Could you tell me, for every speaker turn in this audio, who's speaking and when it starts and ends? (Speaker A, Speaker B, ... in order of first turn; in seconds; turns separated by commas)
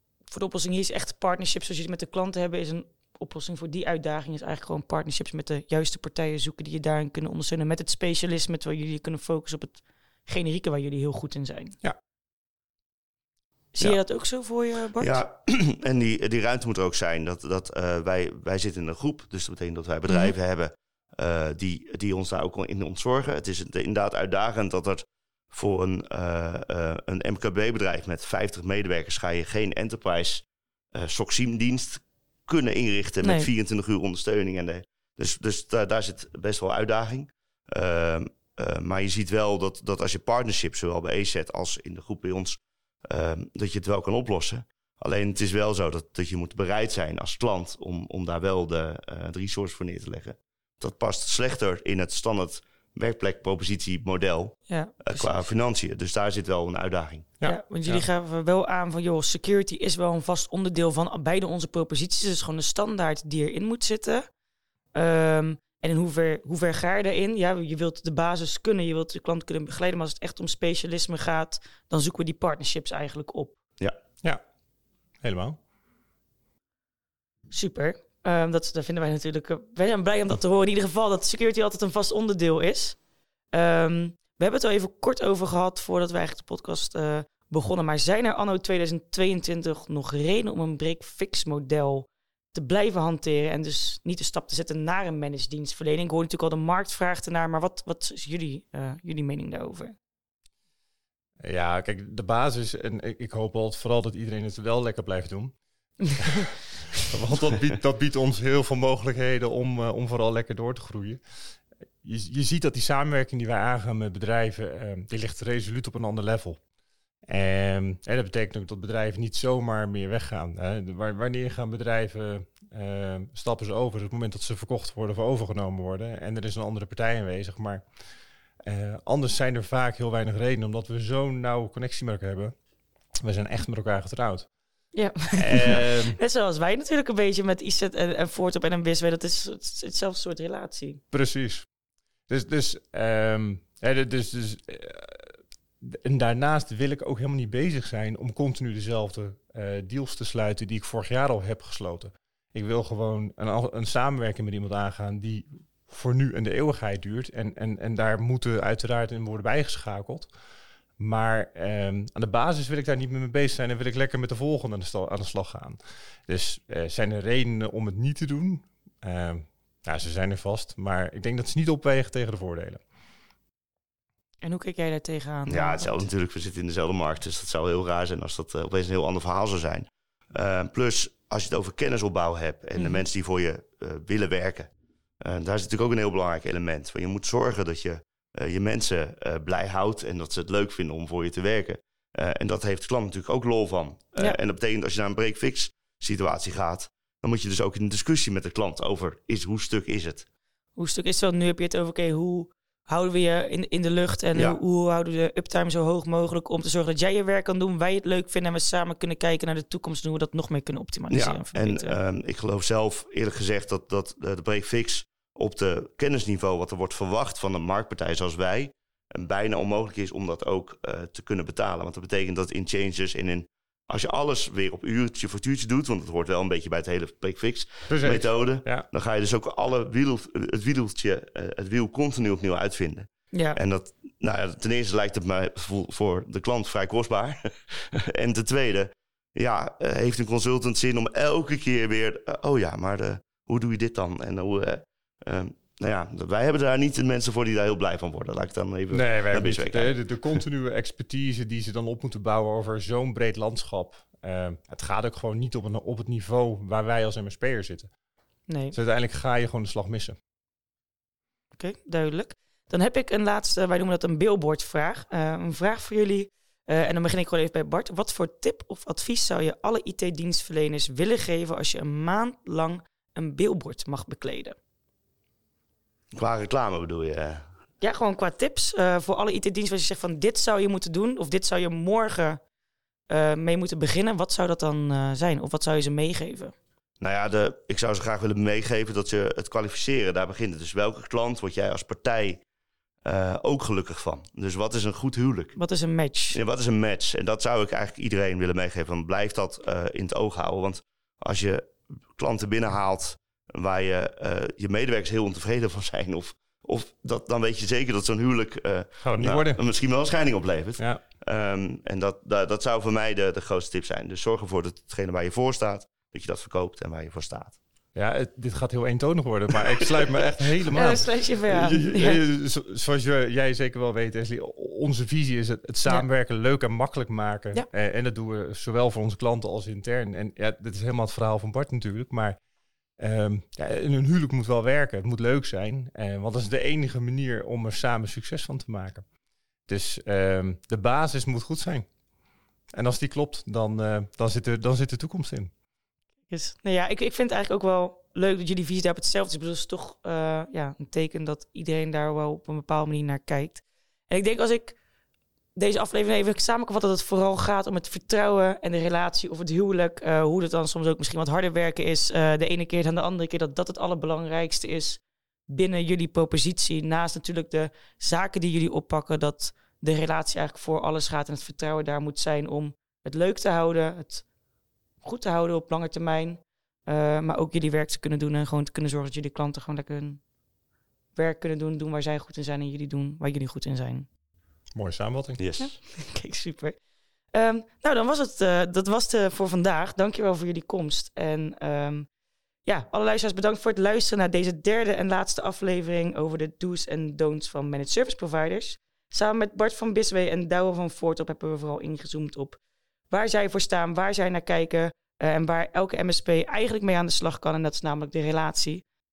Speaker A: 0.3-11.8, Speaker A: 13.7-15.2, Speaker B: 15.0-57.3, Speaker A: 20.1-20.3, Speaker A: 33.2-33.5, Speaker A: 54.7-55.5, Speaker C: 57.4-58.0, Speaker A: 57.4-64.2, Speaker A: 64.9-73.6, Speaker C: 75.2-75.6, Speaker A: 77.5-83.0, Speaker A: 83.5-100.0, Speaker C: 101.4-105.5, Speaker C: 106.1-111.2, Speaker C: 112.0-116.6, Speaker C: 117.3-127.8, Speaker C: 128.6-132.5, Speaker C: 133.2-134.5, Speaker A: 134.9-141.0, Speaker C: 135.3-136.2, Speaker C: 141.1-141.7, Speaker C: 142.3-160.3, Speaker C: 161.0-172.8, Speaker A: 174.4-176.1, Speaker B: 175.5-184.7, Speaker A: 182.8-183.0, Speaker B: 185.2-200.2, Speaker A: 200.8-211.9, Speaker B: 211.1-250.0, Speaker C: 227.9-228.9, Speaker A: 233.3-233.6, Speaker C: 248.9-257.9, Speaker A: 258.5-258.8, Speaker C: 258.7-260.1, Speaker A: 261.6-274.6, Speaker B: 276.1-277.4, Speaker A: 277.8-282.4, Speaker A: 283.1-286.5, Speaker B: 287.0-292.4, Speaker B: 293.0-295.6, Speaker A: 295.6-296.4, Speaker B: 296.3-317.6, Speaker C: 309.0-309.6, Speaker C: 317.9-332.4, Speaker A: 320.7-322.2, Speaker C: 333.0-339.0, Speaker C: 339.7-341.9, Speaker C: 342.7-345.5, Speaker A: 346.3-354.8, Speaker A: 355.5-374.2, Speaker A: 375.0-380.2, Speaker A: 381.1-384.1, Speaker C: 384.7-385.4, Speaker B: 385.4-385.7, Speaker A: 385.6-386.8, Speaker A: 387.3-392.1, Speaker A: 392.6-408.8